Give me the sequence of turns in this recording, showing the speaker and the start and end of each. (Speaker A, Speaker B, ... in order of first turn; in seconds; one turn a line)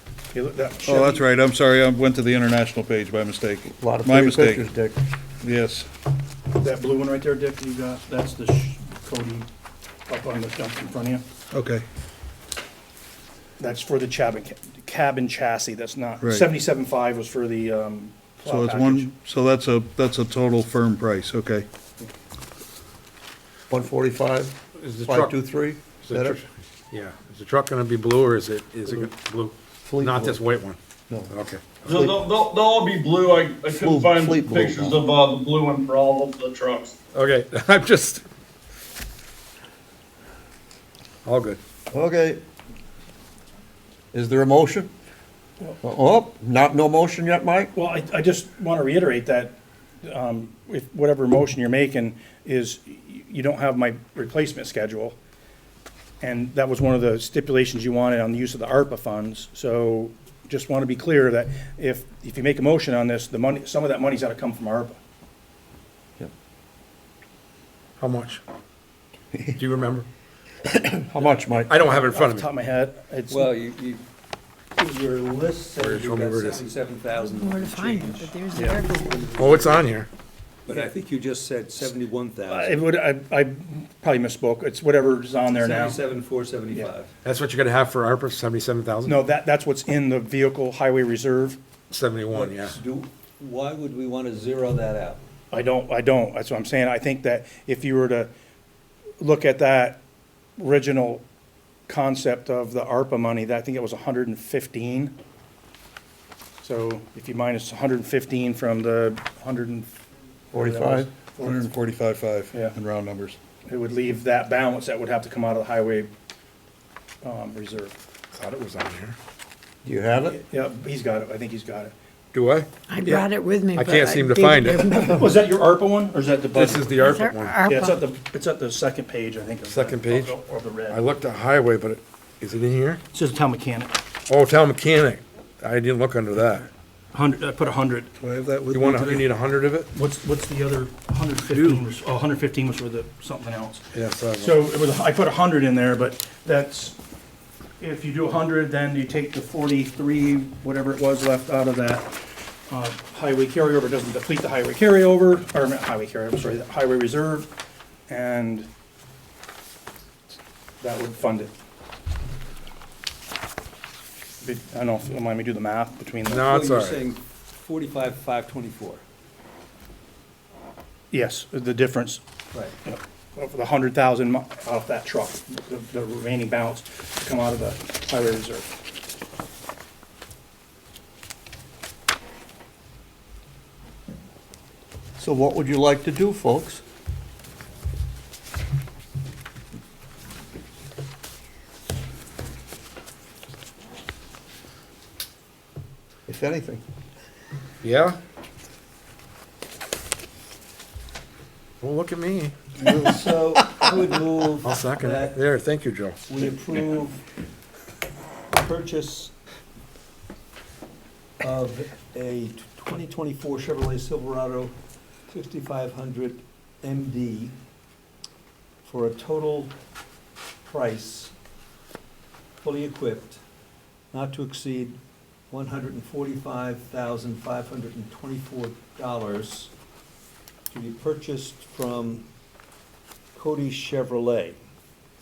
Speaker A: 0.3-1.2
Speaker B: 0.8-4.7
Speaker C: 3.7-5.0
Speaker B: 5.4-5.9
Speaker A: 6.5-9.5
Speaker A: 10.1-11.2
Speaker B: 11.5-11.8
Speaker A: 13.6-19.1
Speaker B: 16.2-16.5
Speaker B: 18.4-21.7
Speaker C: 23.7-26.4
Speaker D: 24.8-25.3
Speaker D: 26.0-30.8
Speaker C: 29.9-30.4
Speaker D: 31.3-32.0
Speaker E: 31.8-37.0
Speaker C: 33.7-35.0
Speaker D: 37.1-38.2
Speaker D: 41.2-41.6
Speaker C: 41.9-42.4
Speaker C: 44.1-44.9
Speaker C: 45.8-47.7
Speaker A: 47.7-55.1
Speaker A: 56.2-65.0
Speaker D: 68.0-68.4
Speaker D: 69.5-70.1
Speaker C: 70.7-71.7
Speaker D: 71.7-72.5
Speaker A: 71.9-73.5
Speaker F: 73.3-74.0
Speaker F: 74.8-79.9
Speaker D: 75.8-76.6
Speaker G: 77.2-79.3
Speaker A: 78.5-78.8
Speaker D: 79.3-80.1
Speaker F: 80.6-82.8
Speaker A: 82.5-86.0
Speaker F: 85.5-87.1
Speaker D: 87.2-89.2
Speaker A: 89.0-91.6
Speaker D: 91.9-92.8
Speaker F: 92.3-95.2
Speaker A: 95.5-98.3
Speaker A: 99.2-100.0
Speaker A: 100.6-101.2
Speaker A: 101.9-105.1
Speaker A: 106.6-109.9
Speaker C: 110.5-111.1
Speaker A: 110.5-111.7
Speaker B: 111.4-113.4
Speaker A: 113.7-116.1
Speaker A: 117.2-117.9
Speaker D: 118.3-119.2
Speaker C: 119.8-120.4
Speaker A: 120.2-121.9
Speaker D: 122.3-122.7
Speaker G: 122.9-125.2
Speaker A: 123.0-123.3
Speaker D: 123.7-125.2
Speaker A: 124.9-127.0
Speaker D: 126.5-127.6
Speaker G: 127.0-128.0
Speaker A: 127.7-131.0
Speaker D: 129.6-130.4
Speaker D: 130.9-133.0
Speaker A: 133.1-133.9
Speaker D: 134.3-136.7
Speaker A: 137.1-138.1
Speaker B: 138.3-139.2
Speaker D: 138.7-139.9
Speaker A: 139.9-143.8
Speaker D: 143.9-144.6
Speaker A: 144.4-147.0
Speaker A: 147.8-152.1
Speaker A: 152.7-157.5
Speaker A: 158.1-158.7
Speaker A: 160.8-161.5
Speaker A: 164.4-166.5
Speaker D: 166.3-167.0
Speaker F: 166.3-169.0
Speaker A: 171.1-172.2
Speaker A: 172.8-178.7
Speaker C: 185.2-186.8
Speaker C: 196.3-196.8
Speaker D: 197.8-198.2
Speaker D: 201.8-202.5
Speaker F: 202.8-205.4
Speaker D: 204.6-206.2
Speaker F: 206.3-207.2
Speaker F: 208.5-209.3
Speaker F: 211.4-214.7
Speaker F: 215.3-217.5
Speaker F: 218.8-219.7
Speaker F: 220.6-221.3
Speaker F: 222.6-223.4
Speaker F: 224.1-225.0
Speaker F: 225.5-229.7
Speaker F: 230.7-232.2
Speaker F: 233.3-234.6